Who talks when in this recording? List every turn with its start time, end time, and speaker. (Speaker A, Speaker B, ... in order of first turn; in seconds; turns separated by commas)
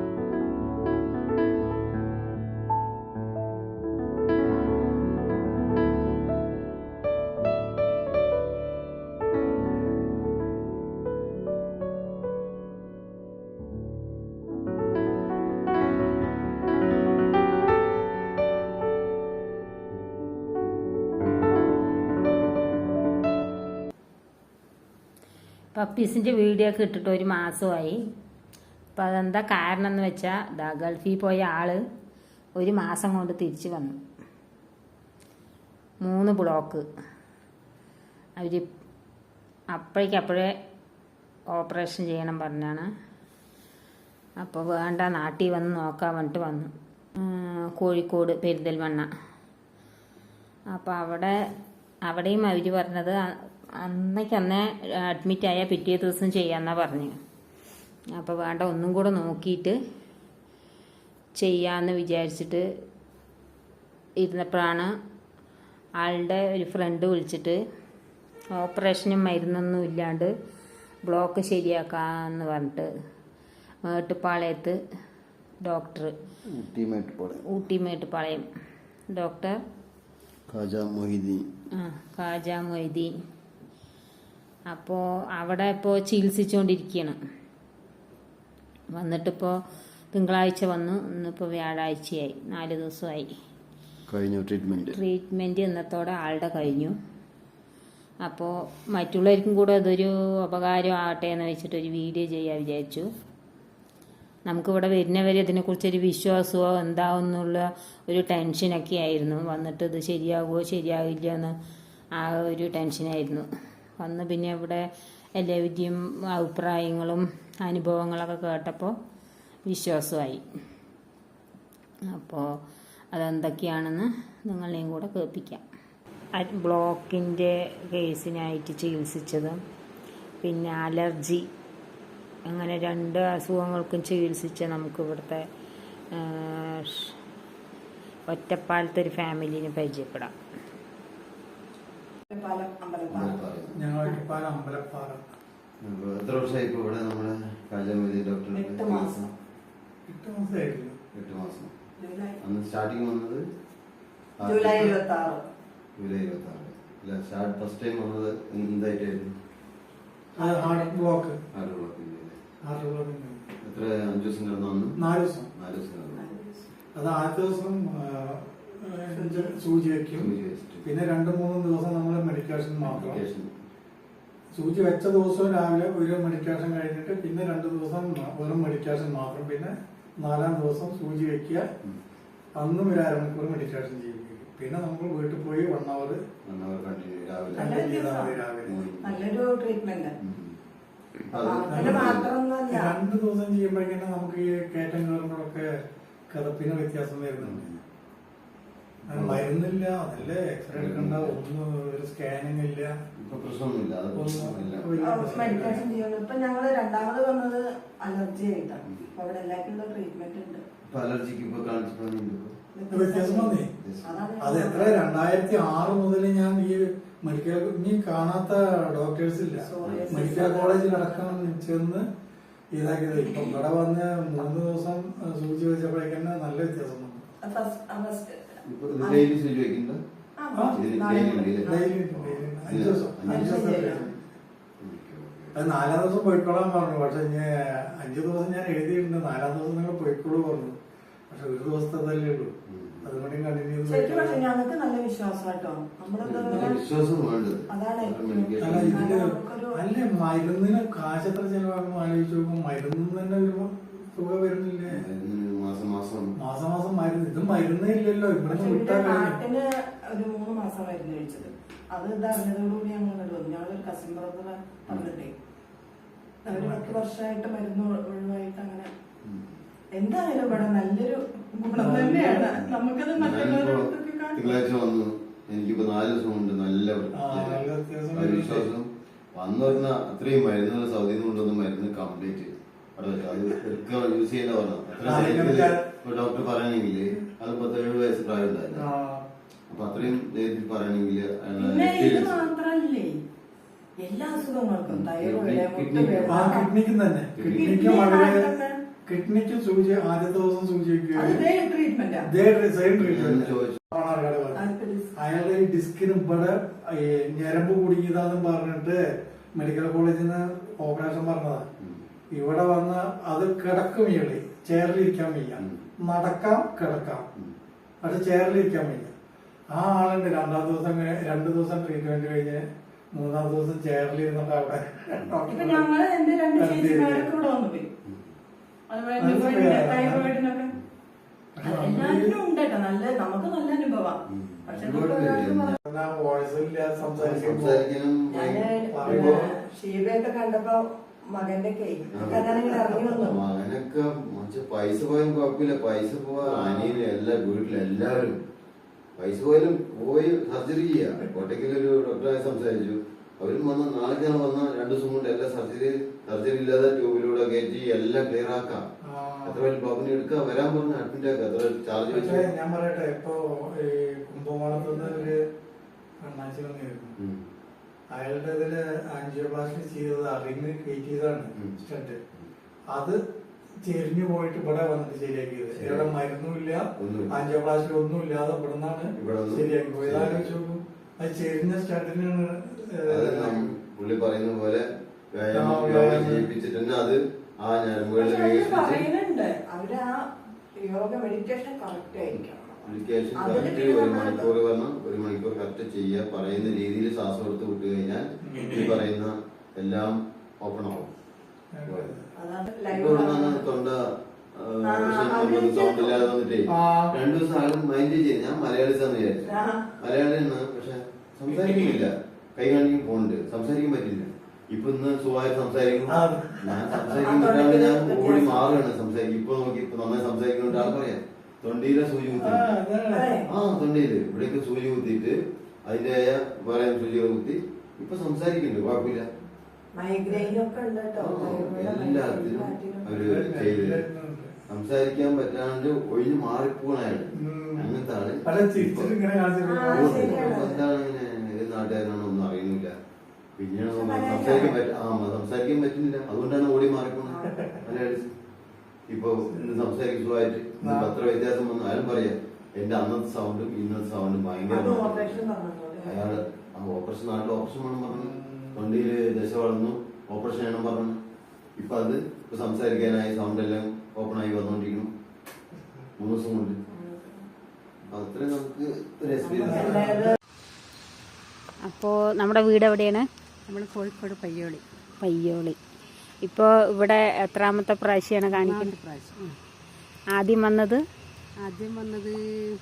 Speaker A: 25.7-28.0, Speaker A: 28.9-31.8, Speaker A: 32.6-34.0, Speaker A: 36.0-36.8, Speaker A: 38.4-38.6, Speaker A: 39.7-40.5, Speaker A: 41.5-42.9, Speaker A: 44.4-49.1, Speaker A: 50.7-51.3, Speaker A: 52.0-53.2, Speaker A: 53.8-57.1, Speaker A: 58.1-59.8, Speaker A: 61.4-62.6, Speaker A: 64.2-64.9, Speaker A: 66.0-67.6, Speaker A: 68.5-70.3, Speaker A: 71.0-72.9, Speaker A: 73.8-74.8, Speaker A: 75.6-76.1, Speaker B: 76.5-77.4, Speaker A: 77.5-78.5, Speaker A: 79.1-79.6, Speaker B: 80.5-81.4, Speaker A: 81.8-83.1, Speaker A: 84.7-87.2, Speaker A: 88.9-89.5, Speaker A: 90.1-93.3, Speaker B: 94.1-95.0, Speaker A: 94.9-96.9, Speaker A: 98.2-103.0, Speaker A: 104.5-111.5, Speaker A: 112.2-113.4, Speaker A: 114.0-114.8, Speaker A: 115.4-118.9, Speaker A: 119.7-120.4, Speaker A: 122.1-122.4, Speaker A: 123.1-125.6, Speaker A: 126.3-129.6, Speaker A: 130.4-131.4, Speaker A: 132.5-135.4, Speaker A: 136.1-137.1, Speaker A: 138.3-140.3, Speaker C: 142.3-143.4, Speaker B: 143.1-143.8, Speaker D: 143.7-145.3, Speaker B: 145.8-149.3, Speaker C: 148.5-149.2, Speaker D: 150.1-150.9, Speaker B: 151.1-151.7, Speaker C: 152.0-152.4, Speaker B: 152.4-153.4, Speaker B: 154.4-154.9, Speaker C: 154.4-155.4, Speaker B: 156.0-159.3, Speaker C: 160.4-160.9, Speaker D: 160.4-161.4, Speaker B: 161.5-162.4, Speaker D: 162.6-163.5, Speaker B: 163.6-165.0, Speaker D: 164.9-165.5, Speaker B: 165.5-166.2, Speaker C: 166.1-166.7, Speaker D: 166.9-173.2, Speaker C: 169.1-169.5, Speaker B: 170.2-170.8, Speaker B: 172.8-173.5, Speaker D: 174.5-181.7, Speaker D: 182.6-186.2, Speaker B: 186.4-187.7, Speaker D: 187.5-188.8, Speaker C: 187.6-188.4, Speaker B: 188.7-189.2, Speaker C: 189.0-190.1, Speaker B: 190.2-190.6, Speaker B: 191.3-192.3, Speaker C: 191.4-192.9, Speaker D: 191.7-195.7, Speaker D: 196.3-197.6, Speaker B: 197.4-197.8, Speaker D: 199.1-202.9, Speaker B: 199.1-199.5, Speaker B: 200.7-201.4, Speaker B: 203.2-204.9, Speaker D: 204.1-205.8, Speaker C: 205.0-210.6, Speaker B: 210.9-212.6, Speaker C: 212.7-215.0, Speaker D: 212.9-213.7, Speaker B: 213.8-214.1, Speaker D: 214.4-222.0, Speaker C: 219.6-221.2, Speaker B: 219.8-220.2, Speaker D: 222.7-227.2, Speaker C: 227.4-228.4, Speaker B: 228.7-230.0, Speaker C: 229.0-229.3, Speaker C: 230.4-231.9, Speaker B: 230.7-233.5, Speaker D: 231.6-234.1, Speaker C: 233.3-234.1, Speaker B: 234.8-235.6, Speaker D: 235.5-240.8, Speaker D: 241.3-244.4, Speaker B: 242.7-243.1, Speaker C: 243.9-246.8, Speaker B: 246.2-249.1, Speaker C: 247.7-249.7, Speaker D: 248.6-255.0, Speaker B: 254.9-256.3, Speaker D: 256.3-259.4, Speaker C: 258.5-265.3, Speaker C: 266.4-268.9, Speaker D: 266.5-266.9, Speaker B: 269.2-269.6, Speaker C: 269.9-274.5, Speaker D: 271.7-272.6, Speaker B: 273.1-288.9, Speaker D: 277.1-278.7, Speaker D: 285.0-285.9, Speaker D: 288.7-289.2, Speaker B: 289.7-292.4, Speaker C: 291.6-293.2, Speaker C: 294.0-296.7, Speaker B: 294.9-296.5, Speaker D: 296.2-298.5, Speaker B: 297.4-297.7, Speaker C: 297.5-298.7, Speaker D: 299.1-301.4, Speaker C: 301.1-302.2, Speaker D: 302.2-309.0, Speaker B: 303.0-303.8, Speaker C: 304.5-305.1, Speaker D: 309.5-311.7, Speaker D: 312.3-317.3, Speaker B: 315.6-315.8, Speaker D: 318.0-319.1, Speaker D: 319.7-325.9, Speaker C: 325.5-327.9, Speaker D: 326.6-327.3, Speaker C: 328.9-330.7, Speaker D: 329.2-330.3, Speaker D: 331.6-332.4, Speaker C: 331.6-335.8, Speaker B: 334.3-335.8, Speaker D: 335.8-337.8, Speaker B: 337.2-339.4, Speaker C: 338.3-343.4, Speaker D: 338.9-339.5, Speaker B: 342.1-342.5, Speaker B: 343.1-348.4, Speaker D: 346.4-347.0, Speaker B: 349.2-358.8, Speaker D: 359.0-359.7, Speaker B: 359.4-362.5, Speaker D: 362.1-365.4, Speaker D: 366.2-367.1, Speaker B: 367.2-367.4, Speaker D: 368.1-372.2, Speaker D: 372.9-373.2, Speaker D: 373.8-383.7, Speaker B: 375.7-376.1, Speaker B: 377.0-377.3, Speaker B: 379.2-380.5, Speaker B: 383.1-389.1, Speaker D: 385.5-386.5, Speaker C: 388.1-390.2, Speaker C: 390.8-394.5, Speaker B: 392.3-401.1, Speaker D: 398.4-399.0, Speaker D: 401.7-402.3, Speaker B: 401.9-402.1, Speaker C: 402.4-403.6, Speaker B: 402.9-422.8, Speaker C: 404.8-406.3, Speaker D: 406.7-407.1, Speaker C: 409.5-409.9, Speaker D: 411.5-412.0, Speaker D: 416.1-417.2, Speaker C: 417.1-418.7, Speaker D: 422.4-423.4, Speaker C: 423.1-423.5, Speaker B: 423.5-429.3, Speaker C: 429.9-433.1, Speaker B: 431.2-434.0, Speaker D: 433.1-434.6, Speaker B: 434.7-439.1, Speaker D: 437.3-440.6, Speaker C: 439.6-440.8, Speaker B: 439.9-442.9, Speaker B: 443.6-448.3, Speaker C: 443.9-444.8, Speaker C: 447.3-447.5, Speaker B: 449.1-455.5, Speaker D: 450.8-451.1, Speaker C: 454.7-456.4, Speaker B: 456.0-461.2, Speaker D: 458.1-458.8, Speaker B: 461.8-465.1, Speaker D: 465.8-466.1, Speaker B: 466.2-466.8, Speaker C: 466.9-467.4, Speaker B: 468.1-470.2, Speaker C: 469.5-470.3, Speaker D: 469.7-470.2, Speaker A: 471.9-473.2, Speaker E: 473.7-474.8, Speaker A: 475.2-475.8, Speaker A: 476.4-478.9, Speaker E: 478.5-479.5, Speaker A: 480.4-481.0, Speaker E: 481.6-482.4